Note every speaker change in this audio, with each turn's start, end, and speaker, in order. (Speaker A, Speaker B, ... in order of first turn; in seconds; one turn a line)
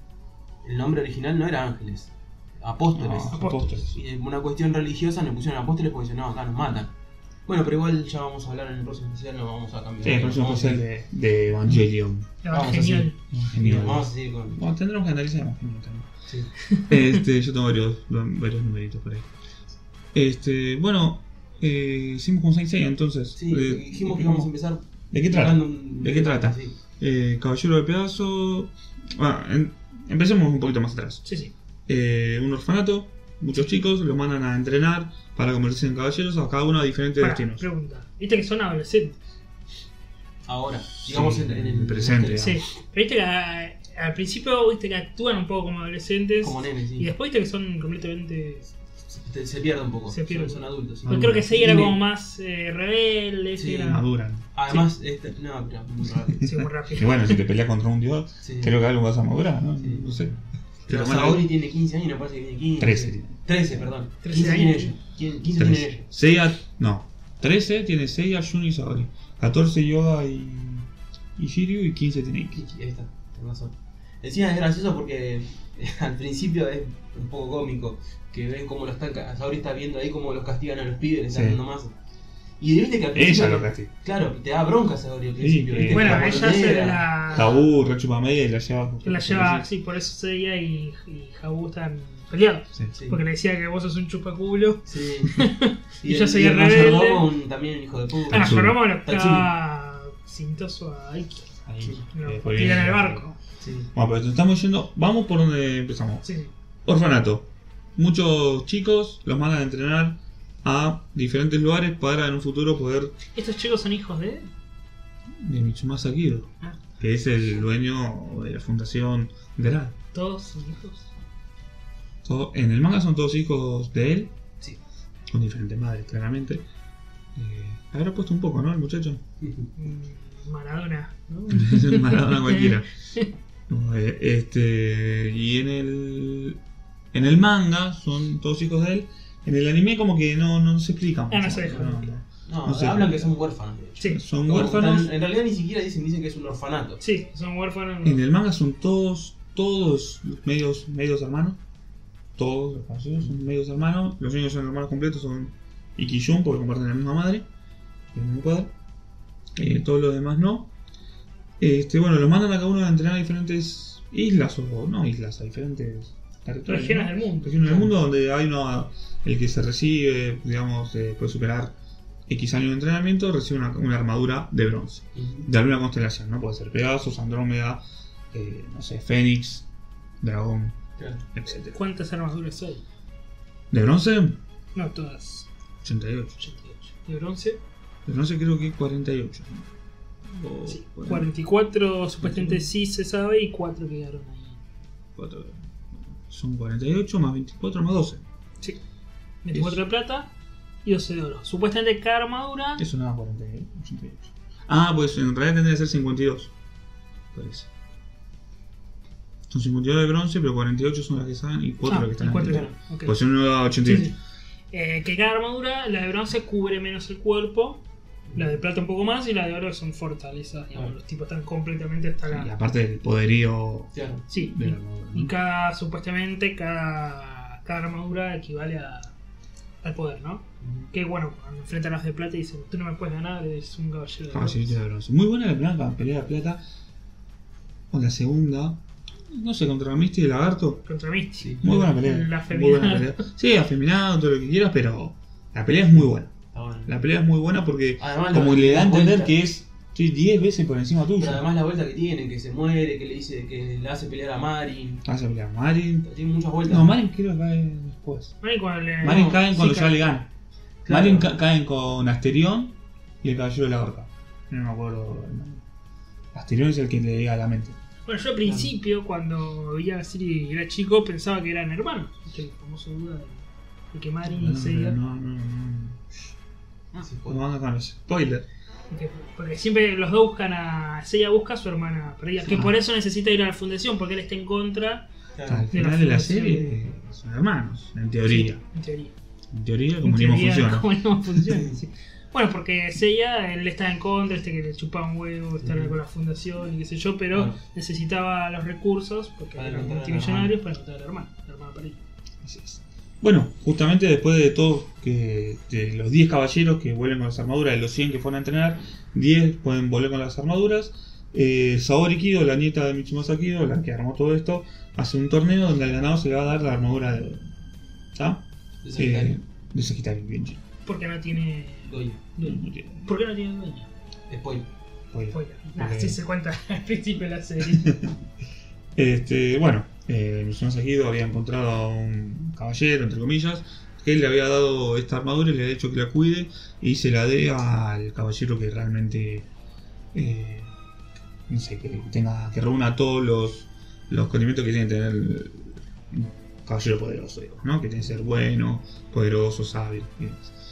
Speaker A: 0.6-6.9
Speaker B: 2.9-4.0
Speaker C: 3.3-3.8
Speaker A: 7.5-10.8
Speaker B: 10.0-12.3
Speaker C: 12.4-13.2
Speaker A: 12.5-14.6
Speaker B: 13.3-16.1
Speaker C: 16.6-17.2
Speaker B: 16.9-19.3
Speaker B: 20.1-24.5
Speaker A: 23.4-26.8
Speaker B: 25.1-31.3
Speaker C: 31.2-31.5
Speaker B: 31.9-37.7
Speaker C: 37.2-39.2
Speaker A: 40.5-42.5
Speaker B: 41.0-42.6
Speaker C: 42.4-48.8
Speaker A: 46.4-47.1
Speaker A: 49.1-52.0
Speaker C: 50.1-54.1
Speaker B: 51.1-51.5
Speaker A: 53.6-54.0
Speaker B: 53.9-54.5
Speaker A: 54.5-56.5
Speaker B: 56.4-61.5
Speaker C: 56.4-57.4
Speaker A: 58.4-58.8
Speaker A: 59.8-66.1
Speaker B: 62.8-63.4
Speaker C: 64.2-64.9
Speaker B: 65.6-72.6
Speaker A: 72.5-82.0
Speaker B: 81.3-81.6
Speaker A: 82.6-87.7
Speaker B: 83.1-83.9
Speaker B: 85.4-86.6
Speaker C: 85.9-87.5
Speaker B: 87.3-89.7
Speaker C: 89.0-97.3
Speaker A: 93.0-93.2
Speaker A: 94.9-95.5
Speaker A: 96.0-99.5
Speaker B: 98.3-98.8
Speaker C: 98.3-101.5
Speaker B: 101.7-103.3
Speaker C: 102.1-103.4
Speaker A: 103.6-103.9
Speaker B: 103.9-106.2
Speaker C: 106.2-106.5
Speaker B: 106.8-113.2
Speaker C: 113.3-114.5
Speaker B: 115.4-120.0
Speaker C: 120.1-121.1
Speaker B: 122.2-124.3
Speaker B: 125.3-126.7
Speaker B: 127.3-129.2
Speaker A: 129.4-129.7
Speaker C: 129.8-133.3
Speaker B: 131.5-132.9
Speaker B: 133.7-136.6
Speaker B: 137.1-143.3
Speaker C: 141.3-142.2
Speaker A: 142.5-147.0
Speaker B: 144.1-145.1
Speaker C: 147.0-148.2
Speaker B: 148.0-151.6
Speaker B: 152.4-157.5
Speaker B: 158.1-158.7
Speaker B: 159.6-160.7
Speaker B: 161.6-171.8
Speaker C: 166.7-167.5
Speaker A: 167.6-167.9
Speaker B: 172.3-179.7
Speaker A: 175.2-175.5
Speaker B: 180.2-180.8
Speaker A: 181.0-181.2
Speaker B: 181.3-181.8
Speaker C: 181.6-182.8
Speaker B: 183.7-184.4
Speaker C: 184.8-185.5
Speaker B: 185.8-186.4
Speaker C: 186.4-187.6
Speaker B: 188.1-189.7
Speaker B: 190.3-191.3
Speaker C: 190.7-194.6
Speaker B: 192.2-192.7
Speaker B: 195.2-198.2
Speaker C: 199.4-200.3
Speaker B: 199.5-199.8
Speaker C: 200.8-202.8
Speaker B: 202.8-206.5
Speaker B: 207.3-207.7
Speaker B: 209.5-214.1
Speaker C: 211.8-213.2
Speaker A: 212.5-212.7
Speaker C: 213.8-214.2
Speaker C: 214.7-217.8
Speaker A: 218.3-218.6
Speaker C: 218.3-222.5
Speaker B: 222.3-225.3
Speaker A: 223.9-224.2
Speaker C: 224.3-229.1
Speaker C: 229.8-234.8
Speaker A: 230.6-230.9
Speaker B: 234.3-236.6
Speaker B: 237.9-240.8
Speaker C: 240.8-243.2
Speaker B: 241.6-246.3
Speaker A: 245.9-247.1
Speaker B: 246.9-251.4
Speaker A: 248.0-249.3
Speaker A: 251.2-255.0
Speaker B: 255.1-256.1
Speaker A: 256.0-256.9
Speaker B: 256.7-258.4
Speaker C: 258.4-260.0
Speaker B: 259.0-260.3
Speaker A: 260.8-261.3
Speaker B: 260.9-265.6
Speaker B: 266.3-267.8
Speaker C: 268.1-275.0
Speaker A: 268.4-268.7
Speaker B: 274.3-276.0
Speaker A: 277.0-277.4
Speaker B: 277.2-278.5
Speaker C: 278.9-285.1
Speaker A: 285.4-285.7
Speaker B: 285.5-288.6
Speaker C: 285.7-286.8
Speaker C: 288.3-289.1
Speaker B: 289.5-290.9
Speaker C: 290.0-302.0
Speaker A: 291.4-291.8
Speaker A: 295.6-296.0
Speaker A: 297.3-297.6
Speaker A: 299.6-300.6
Speaker B: 302.4-317.5
Speaker B: 318.1-320.6
Speaker A: 318.8-319.4
Speaker C: 320.9-323.9
Speaker A: 321.9-322.2
Speaker B: 322.4-323.1
Speaker A: 324.3-324.7
Speaker B: 325.1-326.2
Speaker C: 325.3-328.0
Speaker B: 327.7-328.1
Speaker B: 328.9-339.5
Speaker B: 340.1-340.7
Speaker B: 341.5-350.4